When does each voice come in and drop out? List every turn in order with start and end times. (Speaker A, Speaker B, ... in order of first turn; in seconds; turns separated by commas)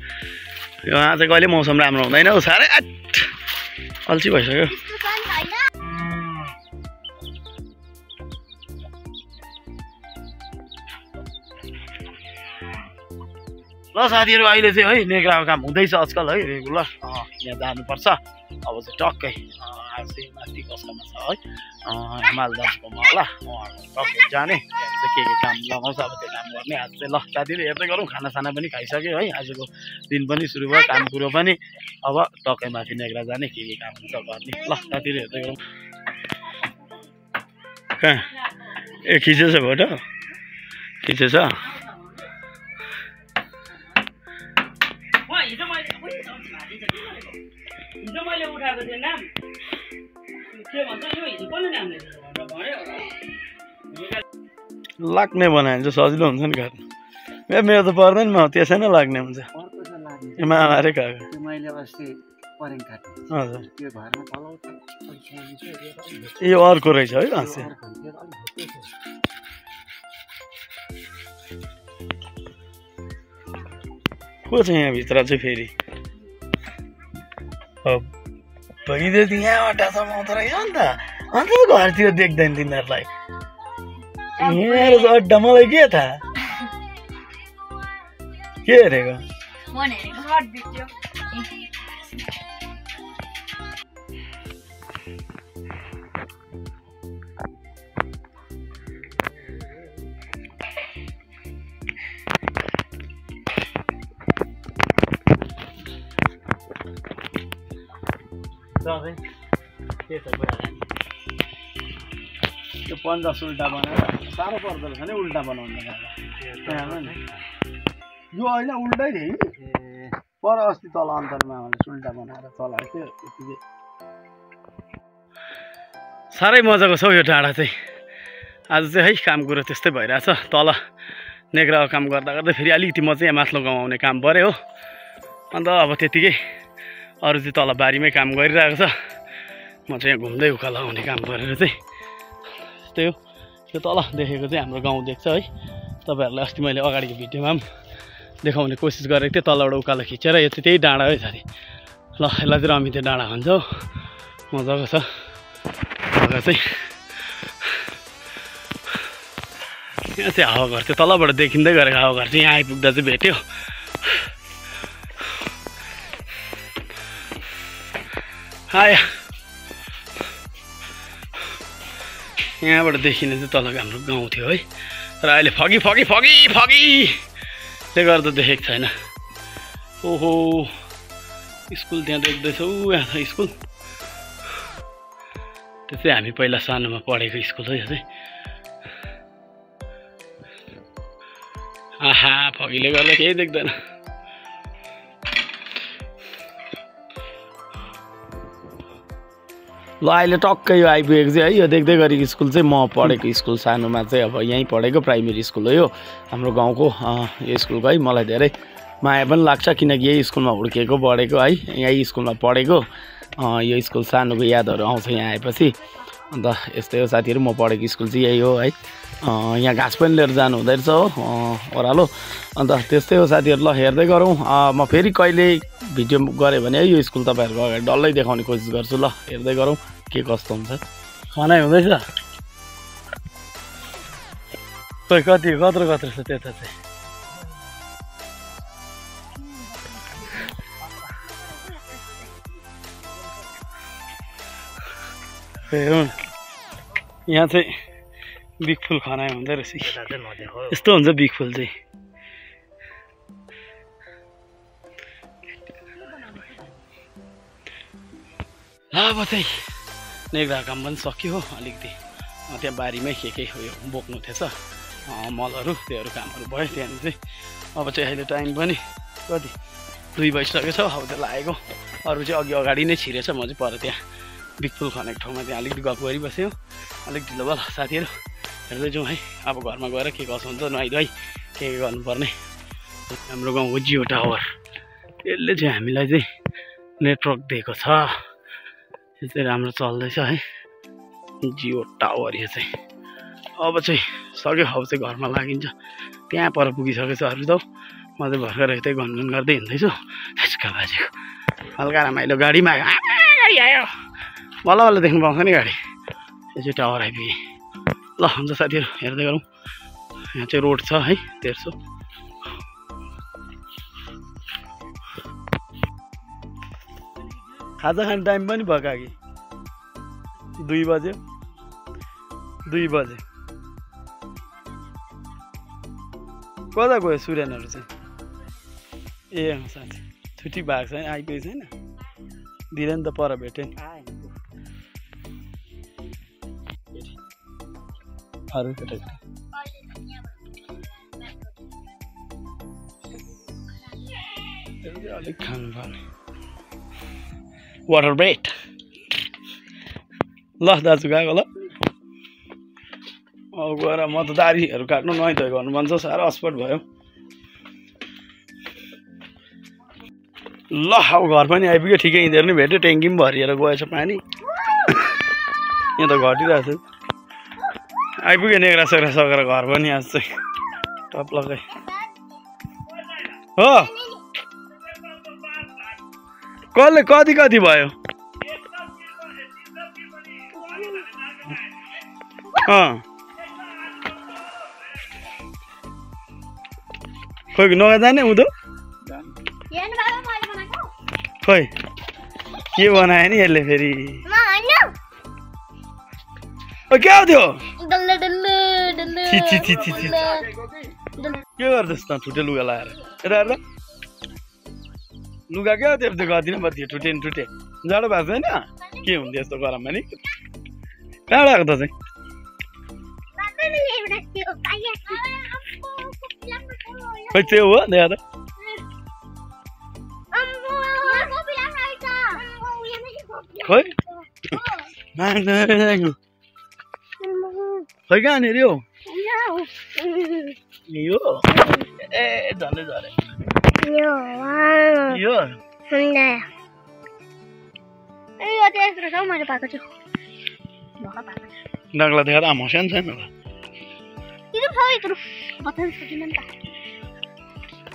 Speaker A: 0.8-3.3, Speaker A: 4.0-4.9, Speaker B: 4.7-5.7, Speaker A: 13.9-35.6, Speaker A: 38.0-40.0, Speaker A: 41.0-41.8, Speaker C: 45.3-47.2, Speaker A: 48.0-49.2, Speaker C: 48.1-49.2, Speaker C: 50.5-53.1, Speaker A: 55.0-56.8, Speaker A: 57.5-59.5, Speaker D: 59.5-66.4, Speaker A: 60.4-61.3, Speaker A: 63.3-63.7, Speaker A: 66.4-67.7, Speaker D: 67.2-68.9, Speaker A: 74.5-75.7, Speaker A: 77.8-78.1, Speaker A: 78.8-83.1, Speaker A: 84.4-86.2, Speaker B: 84.4-85.1, Speaker A: 88.6-89.2, Speaker B: 89.7-91.4, Speaker A: 108.8-109.2, Speaker A: 110.1-110.9, Speaker A: 112.8-117.1, Speaker D: 116.4-117.4, Speaker A: 118.3-119.5, Speaker D: 119.6-120.2, Speaker A: 120.4-123.6, Speaker A: 126.3-127.7, Speaker A: 128.7-130.8, Speaker A: 131.5-134.6, Speaker A: 135.5-136.4, Speaker A: 137.2-138.9, Speaker A: 139.9-141.8, Speaker A: 142.8-143.2, Speaker A: 143.7-145.5, Speaker A: 146.1-147.6, Speaker A: 148.4-151.4, Speaker A: 152.2-153.9, Speaker A: 154.5-155.1, Speaker A: 156.1-156.8, Speaker A: 160.2-163.4, Speaker A: 168.7-169.1, Speaker A: 172.6-174.6, Speaker A: 175.2-177.2, Speaker A: 177.9-178.9, Speaker A: 180.0-180.7, Speaker A: 181.7-183.5, Speaker A: 185.9-188.0, Speaker A: 192.0-193.7, Speaker A: 200.0-212.8, Speaker A: 213.4-215.8, Speaker A: 216.3-230.8, Speaker A: 231.3-232.0, Speaker A: 235.1-236.7, Speaker A: 245.7-246.2, Speaker A: 247.3-247.7, Speaker A: 248.6-251.7, Speaker A: 258.9-259.6, Speaker A: 260.3-262.0, Speaker A: 262.5-264.5, Speaker A: 265.1-267.2, Speaker A: 267.8-269.6, Speaker A: 270.2-274.0, Speaker A: 274.6-276.6, Speaker A: 277.1-278.1, Speaker A: 278.7-282.3, Speaker A: 283.1-284.4, Speaker A: 285.2-286.2, Speaker A: 287.0-288.2, Speaker A: 289.2-290.4, Speaker A: 291.4-292.7, Speaker A: 293.6-295.7, Speaker A: 296.3-297.6, Speaker A: 298.2-301.1, Speaker A: 301.8-303.9, Speaker A: 304.6-305.8, Speaker A: 306.5-307.4, Speaker A: 308.2-309.4, Speaker A: 310.3-311.8, Speaker A: 317.8-319.1, Speaker A: 320.6-321.2, Speaker A: 322.7-323.2, Speaker A: 326.7-327.9, Speaker A: 329.3-331.7, Speaker A: 332.7-333.7, Speaker D: 333.8-334.2, Speaker A: 338.5-339.2, Speaker B: 339.6-340.2, Speaker A: 344.8-346.0, Speaker A: 347.9-348.5, Speaker A: 350.6-351.5, Speaker A: 353.6-356.8, Speaker A: 360.7-364.2, Speaker A: 365.9-366.8, Speaker A: 368.2-370.2, Speaker A: 371.1-371.6, Speaker B: 371.8-372.1, Speaker A: 373.6-373.9, Speaker A: 376.7-377.9, Speaker B: 380.6-381.1, Speaker A: 382.6-383.0, Speaker A: 387.6-388.5, Speaker B: 389.7-390.9, Speaker A: 391.4-391.7, Speaker A: 392.7-394.2, Speaker B: 394.3-394.9, Speaker A: 396.9-397.6, Speaker B: 397.8-400.5, Speaker A: 399.2-400.4, Speaker B: 401.1-401.4, Speaker A: 401.6-403.6, Speaker A: 405.5-410.2, Speaker A: 411.3-411.9, Speaker B: 413.4-417.5, Speaker A: 417.3-418.2, Speaker B: 420.3-423.9, Speaker A: 423.6-423.9, Speaker B: 424.5-424.9, Speaker A: 425.1-426.2, Speaker B: 427.2-427.9, Speaker A: 428.1-428.8, Speaker B: 429.1-430.6, Speaker A: 430.9-433.2, Speaker B: 431.5-431.9, Speaker B: 433.8-435.2, Speaker A: 435.1-435.6, Speaker B: 435.9-436.4, Speaker B: 438.4-439.9, Speaker B: 441.0-441.5, Speaker A: 441.9-443.3, Speaker B: 444.5-446.5